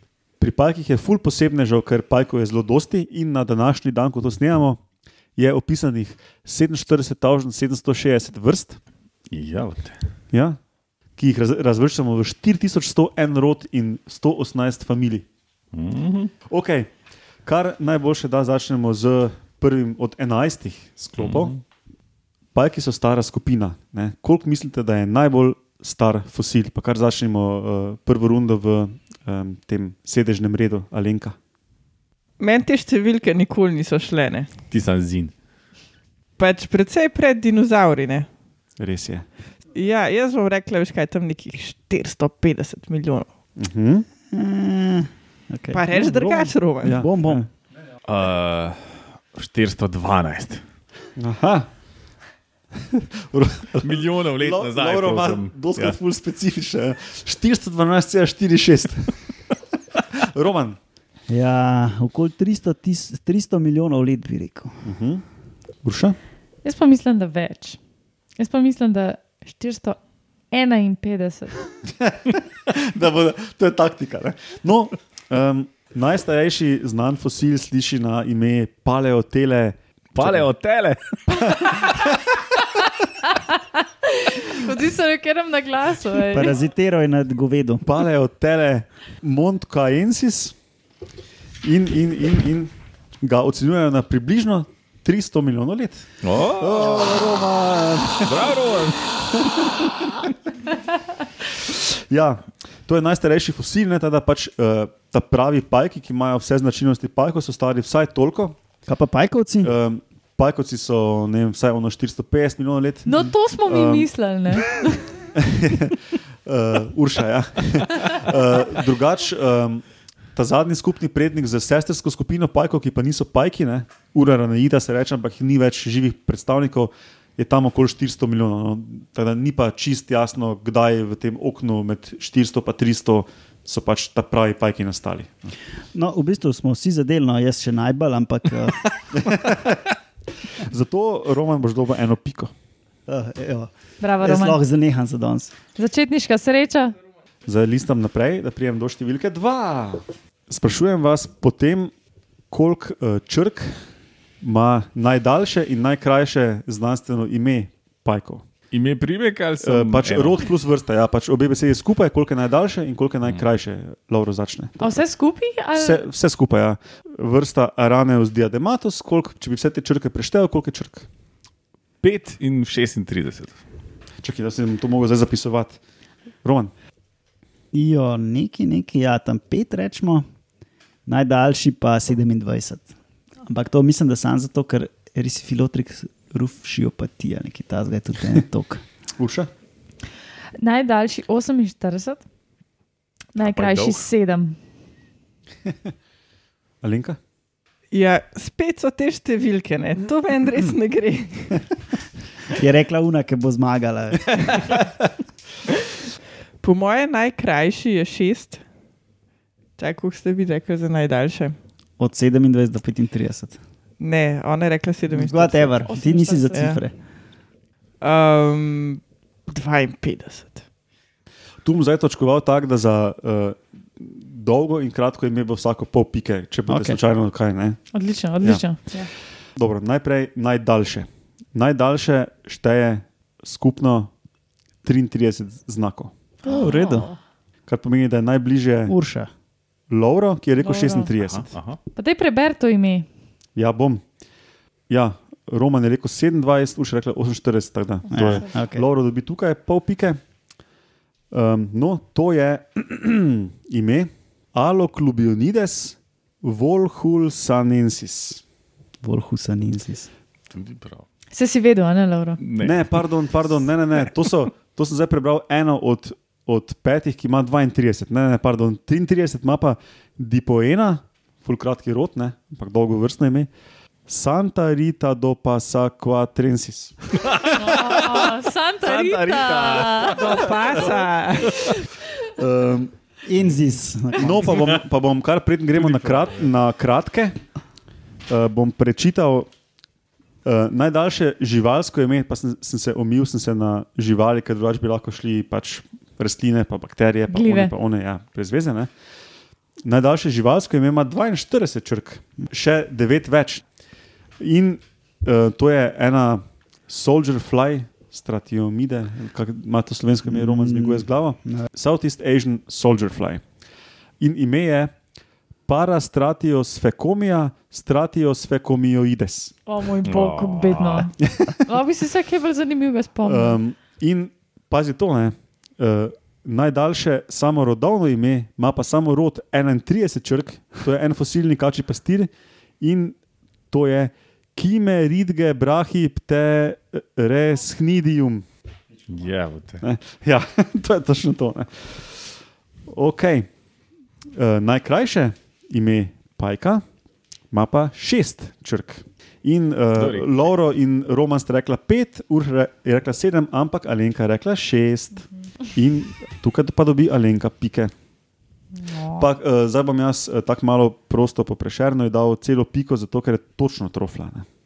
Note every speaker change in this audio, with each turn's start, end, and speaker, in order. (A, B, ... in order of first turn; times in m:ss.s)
0:00.4-0:04.8 A
0:05.4-0:08.8 A
0:09.3-0:10.0 B
0:10.3-0:10.6 A
0:11.2-0:15.2 A
0:15.7-0:16.3 B
0:16.5-0:16.9 A
0:17.4-0:21.5 A
0:21.2-0:21.6 B
0:22.5-0:31.4 A
0:32.4-0:34.5 C
0:34.7-0:35.3 B
0:36.4-0:38.3 C
0:38.8-0:39.2 A
0:39.7-0:43.3 C
0:43.6-0:44.0 A
0:44.3-0:47.4 D
0:45.7-0:47.0 C
0:46.8-0:47.5 A
0:48.0-0:50.6 B
0:51.2-0:51.7 A
0:52.8-0:59.1 A
0:53.8-0:56.0 B
1:00.1-1:00.8 A
1:01.3-1:04.7 D
1:04.8-1:05.2 A
1:05.8-1:06.2 A
1:06.6-1:07.8 E
1:08.4-1:10.0 E
1:10.5-1:11.6 E
1:12.0-1:20.5 A
1:20.1-1:22.0 B
1:21.4-1:22.5 A
1:23.2-1:26.6 E
1:26.2-1:27.9 D
1:27.8-1:30.5 A
1:31.6-1:32.7 A
1:33.2-1:38.6 A
1:36.2-1:37.3 B
1:38.2-1:39.2 B
1:39.1-1:40.3 A
1:41.5-1:48.6 A
1:48.9-1:49.7 D
1:49.6-1:54.1 A
1:53.0-1:55.1 E
1:55.3-1:59.8 A
2:00.3-2:15.5 A
2:15.9-2:19.3 D
2:19.1-2:19.9 A
2:20.5-2:22.5 A
2:23.1-2:25.6 D
2:24.0-2:24.6 E
2:25.7-2:27.0 E
2:27.4-2:31.9 A
2:32.5-2:33.7 A
2:34.4-2:38.4 A
2:38.7-2:40.4 B
2:39.6-2:45.0 A
2:44.8-2:46.0 E
2:45.7-2:51.1 A
2:52.0-2:53.6 B
2:54.2-2:55.8 A
2:56.4-2:56.7 A
2:57.7-3:00.2 D
3:01.0-3:02.9 D
3:03.4-3:08.8 D
3:09.2-3:09.5 A
3:10.6-3:12.2 E
3:13.3-3:14.6 E
3:13.4-3:14.0 B
3:16.8-3:17.2 A
3:17.9-3:21.6 C
3:22.5-3:24.4 D
3:26.6-3:28.6 C
3:29.8-3:31.5 C
3:32.0-3:33.6 D
3:34.0-3:35.9 C
3:35.1-3:36.9 D
3:35.8-3:36.7 E
3:36.5-3:36.8 C
3:38.0-3:40.6 C
3:41.6-3:47.8 A
3:46.7-3:47.0 D
3:47.9-3:49.1 E
3:49.6-3:54.1 A
3:54.8-3:56.1 A
3:56.4-3:57.1 D
3:56.4-3:57.1 E
3:57.7-3:58.9 A
3:58.9-3:59.3 D
3:59.9-4:01.5 A
4:00.6-4:01.1 E
4:01.2-4:01.8 B
4:01.9-4:03.1 E
4:03.6-4:04.0 A
4:04.9-4:10.2 A
4:08.1-4:08.8 D
4:08.1-4:08.4 E
4:11.3-4:18.4 A
4:19.0-4:20.1 D
4:20.5-4:21.0 B
4:21.3-4:22.4 E
4:22.4-4:23.0 B
4:22.6-4:33.5 A
4:34.1-4:37.0 A
4:37.2-4:41.5 B
4:37.5-4:40.6 E
4:40.0-4:41.7 C
4:42.4-4:42.9 A
4:43.2-4:44.7 D
4:44.2-4:47.4 A
4:45.8-4:46.4 B
4:48.3-4:49.5 A
4:50.4-4:58.9 A
4:57.3-4:57.7 E
4:59.8-5:03.6 A
5:04.4-5:13.4 A
5:10.3-5:11.7 D
5:14.2-5:14.9 A
5:15.7-5:19.5 A
5:19.6-5:23.6 E
5:20.0-5:21.1 B
5:21.2-5:21.5 A
5:23.2-5:32.3 A
5:32.8-5:33.2 A
5:33.7-5:38.4 A
5:39.1-5:39.8 B
5:39.8-5:42.3 A
5:42.9-5:43.5 A
5:44.3-5:46.8 A
5:47.5-5:57.9 A
5:50.0-5:50.3 B
5:58.8-5:59.3 E
5:59.1-6:04.4 A